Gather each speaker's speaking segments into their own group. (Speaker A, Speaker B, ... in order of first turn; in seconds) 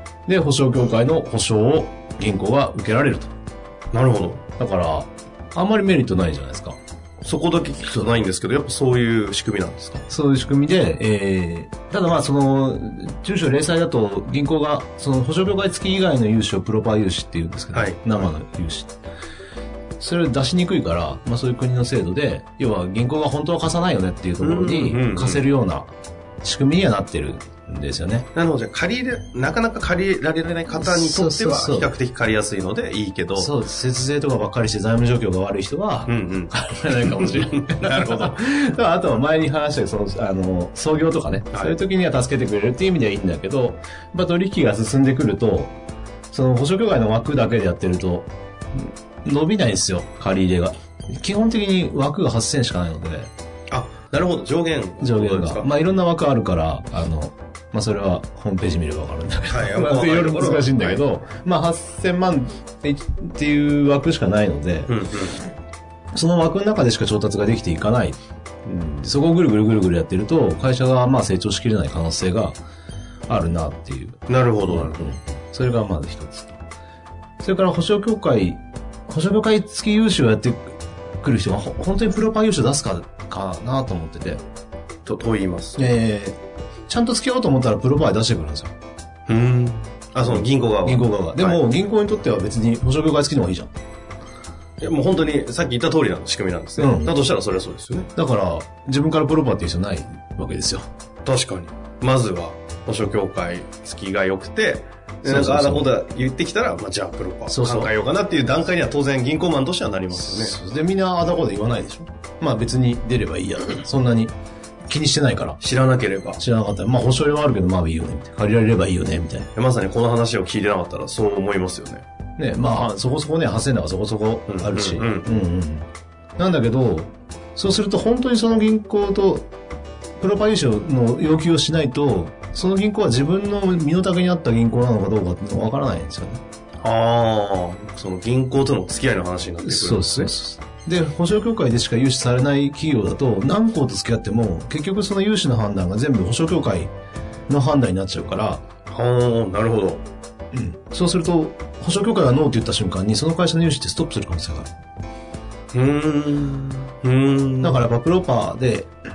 Speaker A: 0.3-3.3, 4.6-6.8, 10.1-18.9, 20.0-28.3, 30.8-31.9, 33.4-45.7, 46.3-53.3, 55.0-64.9, 66.1-72.6, 73.3-76.6, 77.4-84.4, 85.8-86.4, 86.9-88.7, 90.3-93.7, 96.8-97.2, 98.2-100.9, 105.2-105.9, 107.5-107.9, 110.1-114.3, 114.9-115.6, 116.4-119.5, 122.4-125.9, 126.4-129.5, 130.2-136.4, 139.6-146.9, 147.5-148.6, 150.5-154.7, 157.6-158.9
Speaker B: 3.9-4.4, 7.2-10.0, 17.7-18.1, 24.4-25.4, 28.3-33.5, 36.1-38.4, 41.5-41.8, 53.7-55.7, 59.5-61.0, 64.9-65.4, 74.3-75.0, 85.0-85.9, 89.3-91.6, 94.8-98.1, 101.2-110.6, 115.6-116.4, 119.5-122.0, 124.5-125.4, 136.8-140.3, 148.9-150.0, 155.7-157.8